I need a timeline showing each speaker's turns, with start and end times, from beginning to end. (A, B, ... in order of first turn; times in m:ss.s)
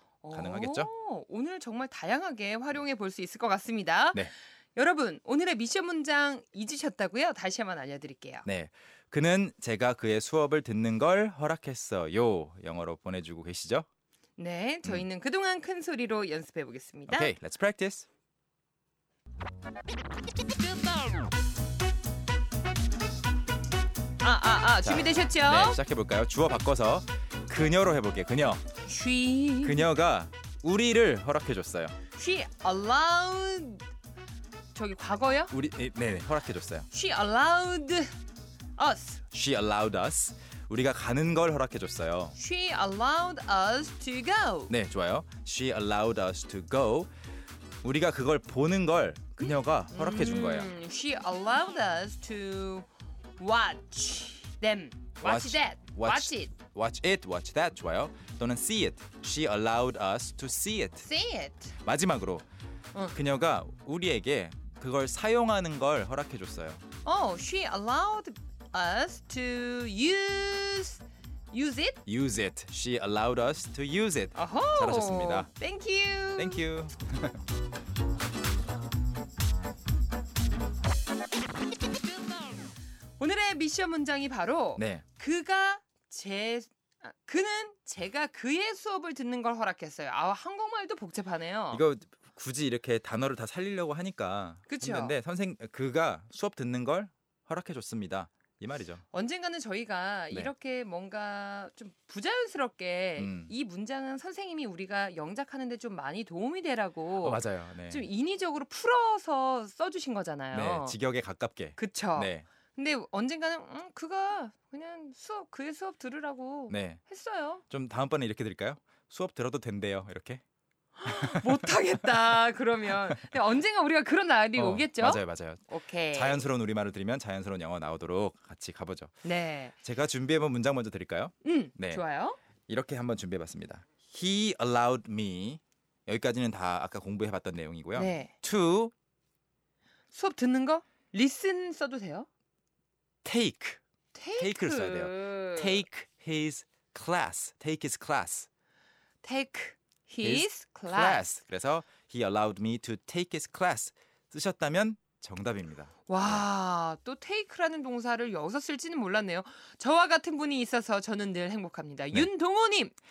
0:00.2-0:08.5 A
0:00.3-0:00.9 B
0:08.4-0:13.9 B
0:14.4-0:17.3 A
0:17.1-0:18.1 B
0:24.2-0:25.8 A
0:24.8-0:28.6 B
0:28.8-0:29.9 A
0:29.6-0:32.0 B
0:32.1-0:33.8 A
0:34.7-0:35.5 A
0:35.5-0:36.9 B
0:36.9-0:38.1 A
0:38.8-0:39.2 A
0:39.3-0:42.4 B
0:42.4-0:44.7 A
0:44.7-0:47.1 B
0:47.8-0:50.7 B
0:49.4-0:52.9 A
0:53.4-0:56.5 A
0:55.2-1:01.1 B
1:01.0-1:01.8 A
1:01.8-1:02.5 B
1:03.1-1:06.8 B
1:07.0-1:12.0 A
1:12.1-1:15.5 B
1:14.4-1:16.6 A
1:16.4-1:17.4 B
1:23.2-1:31.8 A
1:24.8-1:25.0 B
1:31.7-1:39.0 B
1:34.7-1:35.2 A
1:39.1-1:51.0 A
1:43.2-1:43.5 B
1:47.2-1:48.1 B
1:50.5-1:52.5 B
1:51.8-1:57.6 A
1:56.7-1:57.0 B
1:57.7-2:00.4 B
2:01.0-2:06.5 A
2:01.0-2:01.7 B
2:04.6-2:09.2 B
2:09.2-2:09.8 A
2:09.8-2:12.0 B
2:11.4-2:12.4 A
2:12.7-2:18.9 B
2:18.0-2:18.3 A
2:20.1-2:22.3 A
2:23.2-2:23.8 B
2:24.1-2:25.8 A
2:24.4-2:28.5 B
2:29.2-2:31.3 A
2:30.2-2:36.4 B
2:36.1-2:42.9 A